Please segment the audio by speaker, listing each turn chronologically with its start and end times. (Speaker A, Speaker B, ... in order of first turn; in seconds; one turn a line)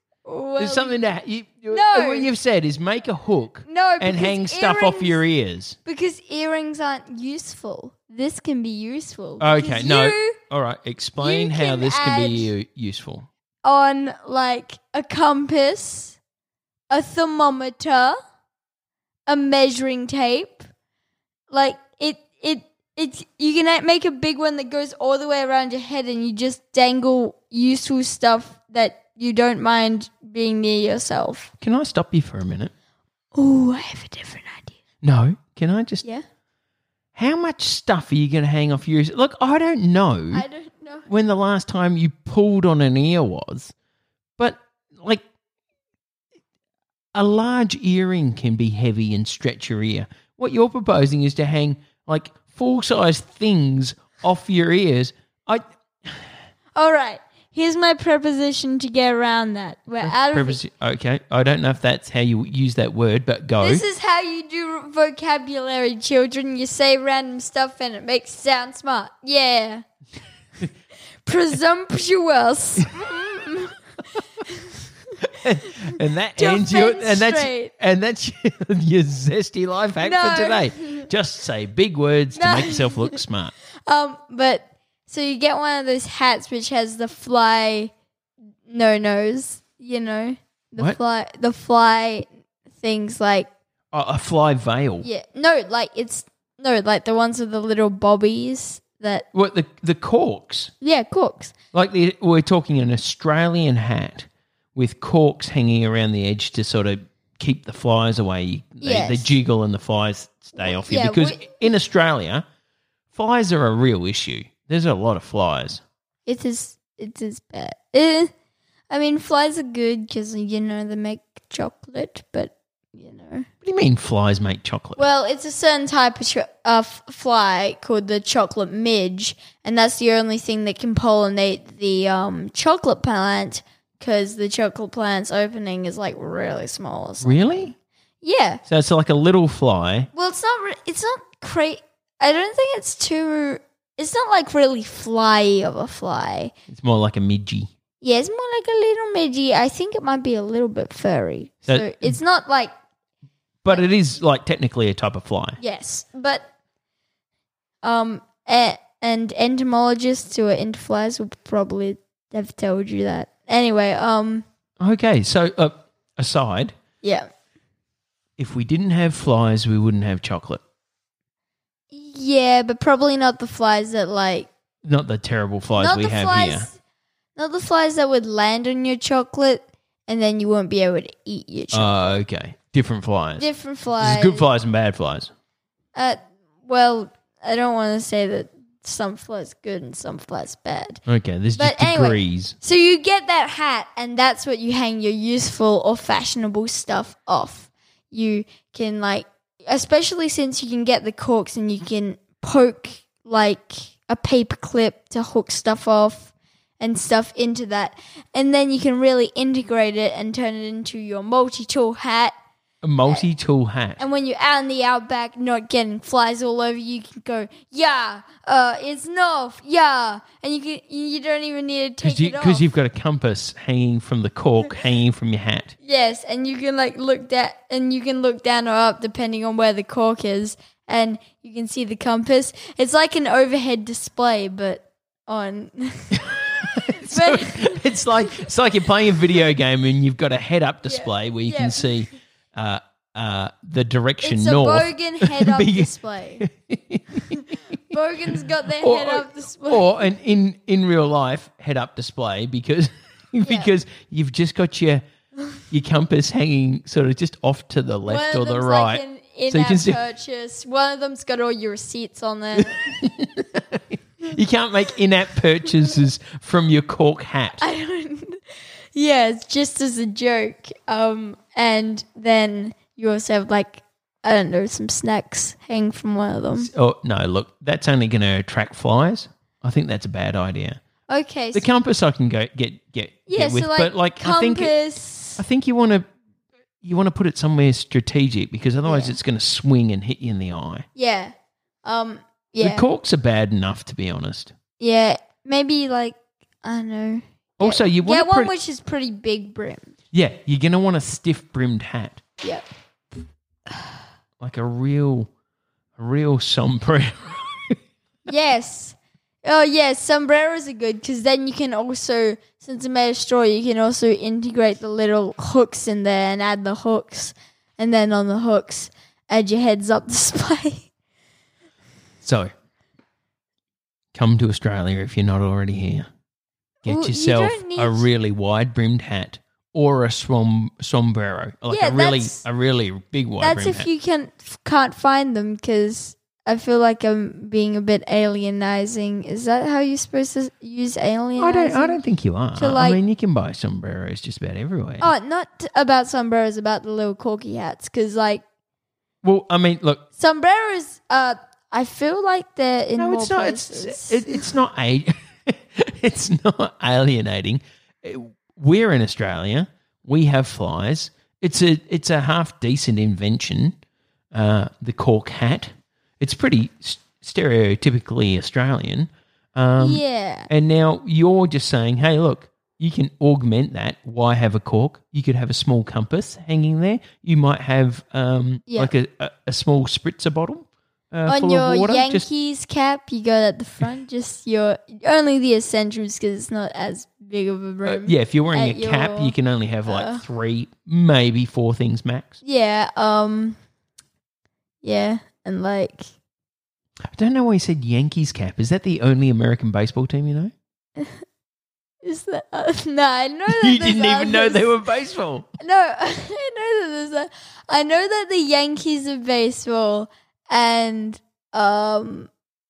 Speaker A: 0.2-1.1
Speaker B: 0.6-5.8
Speaker A: 1.7-2.3
Speaker A: 3.6-5.2
Speaker A: 5.8-10.3
Speaker B: 9.4-13.3
Speaker A: 11.2-12.5
Speaker A: 13.6-16.2
Speaker A: 16.9-18.2
Speaker A: 19.2-20.7
Speaker A: 21.5-31.5
Speaker B: 31.6-32.7
Speaker A: 33.3-34.8
Speaker B: 35.0-36.0
Speaker B: 37.1-40.4
Speaker A: 40.3-41.1
Speaker B: 41.1-43.7
Speaker B: 44.4-45.2
Speaker B: 47.1-56.2
Speaker A: 56.8-60.6
Speaker B: 60.0-63.8
Speaker A: 63.6-69.8
Speaker A: 71.2-73.8
Speaker B: 75.3-83.5
Speaker A: 76.3-77.7
Speaker A: 80.0-81.1
Speaker A: 82.3-83.2
Speaker A: 83.8-87.9
Speaker A: 88.7-93.5
Speaker B: 93.9-95.1
Speaker A: 95.0-99.2
Speaker B: 99.3-100.7
Speaker A: 100.8-101.5
Speaker B: 101.7-112.4
Speaker A: 108.8-109.3
Speaker A: 110.6-111.5
Speaker B: 113.1-115.8
Speaker A: 116.2-118.3
Speaker A: 118.9-123.5
Speaker B: 123.6-125.0
Speaker A: 125.0-138.6
Speaker B: 137.2-137.7
Speaker B: 138.7-140.1
Speaker A: 140.1-146.5
Speaker B: 146.7-147.7
Speaker A: 148.0-152.7
Speaker B: 151.7-152.2
Speaker B: 153.6-155.6
Speaker A: 155.6-156.5
Speaker A: 157.8-164.4
Speaker B: 164.8-166.7
Speaker A: 167.0-167.3
Speaker B: 168.4-170.6
Speaker A: 171.9-174.5
Speaker B: 174.8-176.7
Speaker A: 175.8-176.8
Speaker A: 177.3-182.2
Speaker B: 181.7-185.3
Speaker A: 183.4-184.5
Speaker A: 185.9-191.0
Speaker B: 191.1-192.6
Speaker A: 191.5-212.3
Speaker B: 212.8-214.0
Speaker A: 214.0-222.7
Speaker B: 222.0-225.7
Speaker A: 225.8-237.9
Speaker B: 236.2-247.4
Speaker A: 240.8-242.1
Speaker A: 244.2-246.4
Speaker A: 247.3-250.1
Speaker B: 248.8-255.0
Speaker A: 253.4-253.7
Speaker B: 255.7-260.0
Speaker A: 258.0-262.9
Speaker B: 262.6-267.6
Speaker A: 267.6-268.4
Speaker A: 268.9-276.7
Speaker B: 276.5-280.8
Speaker A: 281.1-281.6
Speaker B: 281.5-284.7
Speaker A: 283.3-285.4
Speaker B: 285.4-286.1
Speaker B: 286.8-290.9
Speaker A: 288.9-289.1
Speaker A: 290.9-291.3
Speaker A: 291.8-292.9
Speaker B: 292.6-294.5
Speaker A: 294.8-299.9
Speaker B: 297.6-298.5
Speaker B: 300.1-302.2
Speaker B: 304.4-305.3
Speaker B: 306.0-307.7
Speaker A: 308.3-320.9
Speaker B: 322.2-322.5
Speaker B: 324.1-326.1
Speaker B: 326.8-333.9
Speaker A: 326.9-328.1
Speaker A: 331.7-332.4
Speaker A: 333.4-342.0
Speaker B: 341.4-345.1
Speaker A: 342.5-343.0
Speaker A: 345.0-348.4
Speaker B: 349.2-350.0
Speaker A: 350.1-354.5
Speaker B: 353.0-363.8
Speaker B: 364.3-382.2
Speaker A: 369.8-370.5
Speaker A: 378.7-378.9
Speaker A: 381.2-390.2
Speaker B: 387.8-392.3
Speaker A: 392.4-393.6
Speaker A: 394.8-396.1
Speaker B: 397.1-400.5
Speaker A: 402.0-404.8
Speaker B: 403.5-405.5
Speaker A: 405.6-412.3